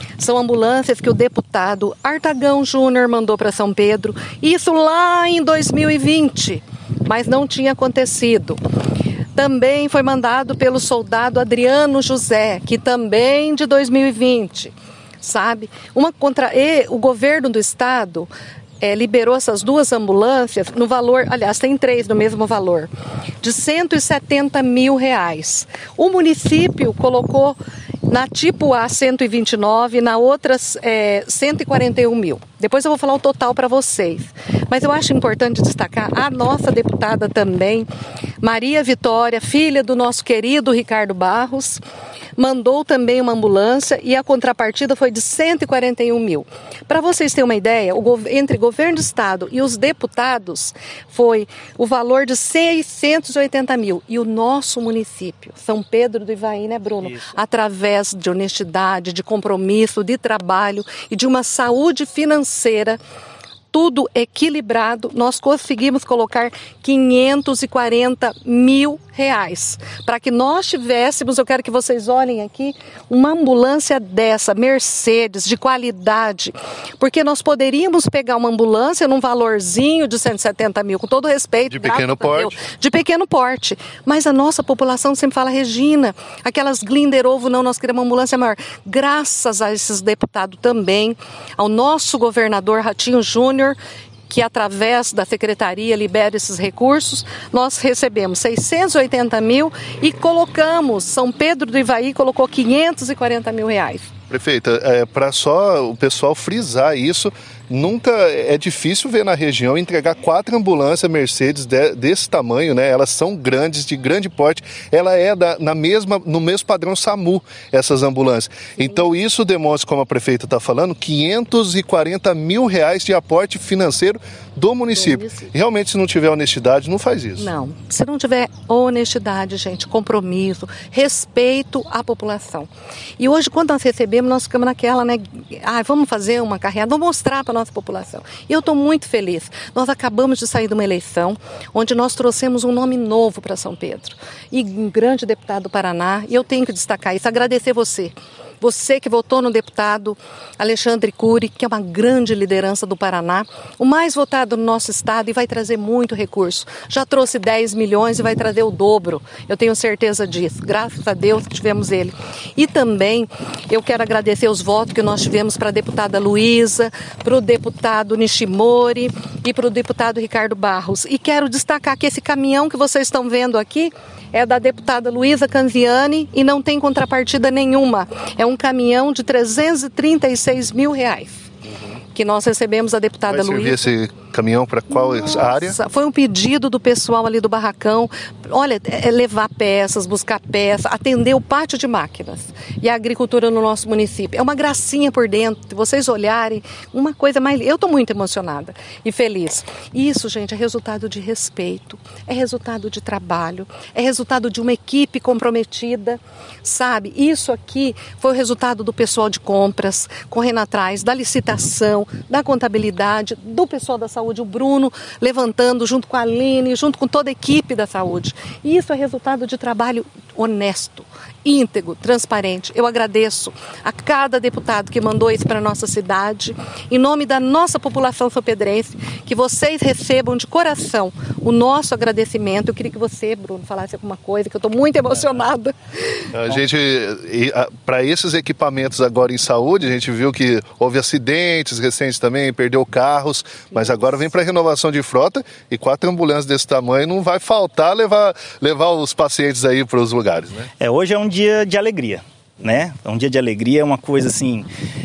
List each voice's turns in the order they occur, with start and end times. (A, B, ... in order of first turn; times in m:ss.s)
0:00.2-0:08.6 A
0:09.4-0:18.3 A
0:18.8-0:22.9 A
0:23.4-0:37.9 A
0:38.4-0:41.8 A
0:42.4-1:03.0 A
0:57.0-0:57.4 B
1:03.7-1:33.8 A
1:21.7-1:22.6 C
1:34.3-1:44.1 A
1:44.3-2:07.5 C
2:05.0-2:05.4 A
2:07.4-3:01.5 A
3:02.1-3:03.9 A
3:03.3-3:05.8 C
3:04.9-3:56.3 A
3:56.3-4:10.7 C
4:03.7-4:04.0 A
4:10.8-4:14.7 B